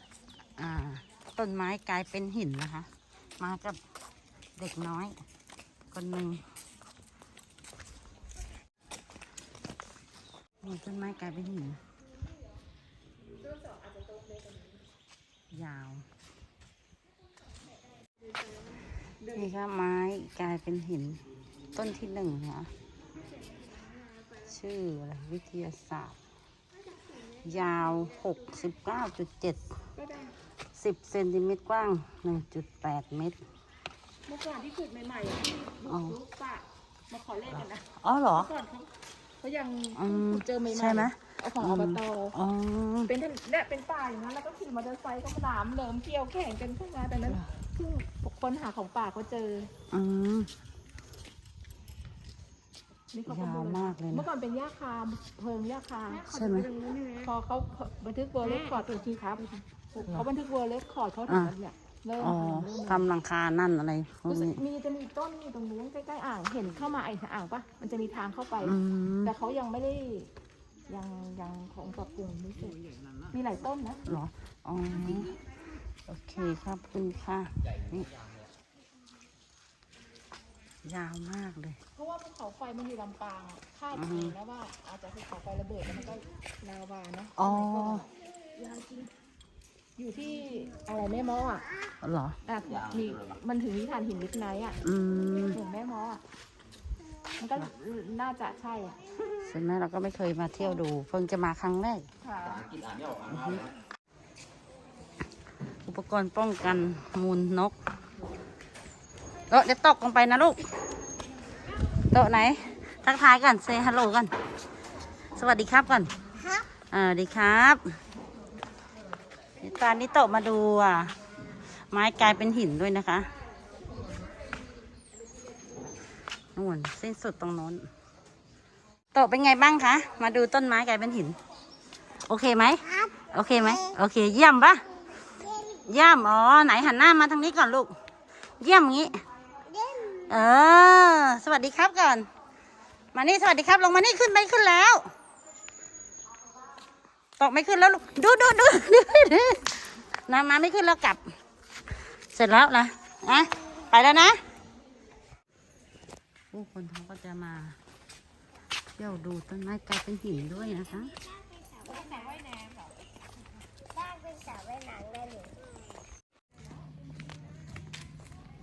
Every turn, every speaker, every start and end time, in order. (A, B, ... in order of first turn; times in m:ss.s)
0:00.6-0:03.8 A
0:04.6-0:05.2 A
0:05.9-0:06.5 A
0:10.6-0:11.8 A
0:13.5-0:14.7 B
0:15.5-0:16.1 A
0:19.2-0:21.2 A
0:21.7-0:22.7 A
0:24.4-0:26.2 A
0:27.2-0:29.7 A
0:30.0-0:30.3 B
0:30.7-0:33.4 A
0:34.2-0:42.4 B
0:35.9-0:36.2 A
0:38.0-0:38.5 A
0:39.9-0:43.1 A
0:43.0-0:49.7 B
0:49.9-0:50.5 A
0:53.1-0:56.3 B
0:53.3-0:54.3 A
0:56.2-0:56.8 A
0:56.8-0:57.1 C
0:57.1-1:03.1 B
1:01.3-1:01.5 A
1:02.2-1:04.6 A
1:04.3-1:10.3 B
1:08.6-1:09.3 A
1:10.9-1:14.0 B
1:14.1-1:15.4 A
1:16.1-1:18.1 A
1:20.8-1:21.8 A
1:21.9-1:29.1 B
1:23.9-1:24.4 A
1:27.4-1:28.1 A
1:30.0-1:31.7 B
1:32.0-1:32.4 A
1:32.4-1:34.8 B
1:34.8-1:35.6 A
1:35.5-1:36.2 B
1:37.4-1:39.0 B
1:39.3-1:42.1 A
1:42.2-1:42.7 B
1:43.2-1:43.7 A
1:45.8-1:47.8 A
1:49.5-1:50.7 A
1:52.1-1:54.3 A
1:55.3-1:56.1 A
1:56.7-1:58.0 A
1:59.6-2:01.2 A
2:01.8-2:03.3 A
2:06.5-2:07.9 A
2:09.1-2:11.4 A
2:12.2-2:14.9 A
2:15.6-2:18.0 A
2:18.6-2:19.2 A
2:19.7-2:20.3 C
2:20.2-2:22.3 A
2:23.1-2:25.1 A
2:27.4-2:31.3 A
2:32.1-2:34.4 A
2:36.5-2:37.8 A
2:39.0-2:41.2 A
2:41.6-2:42.1 C
2:41.8-2:42.8 B
2:43.9-2:45.6 C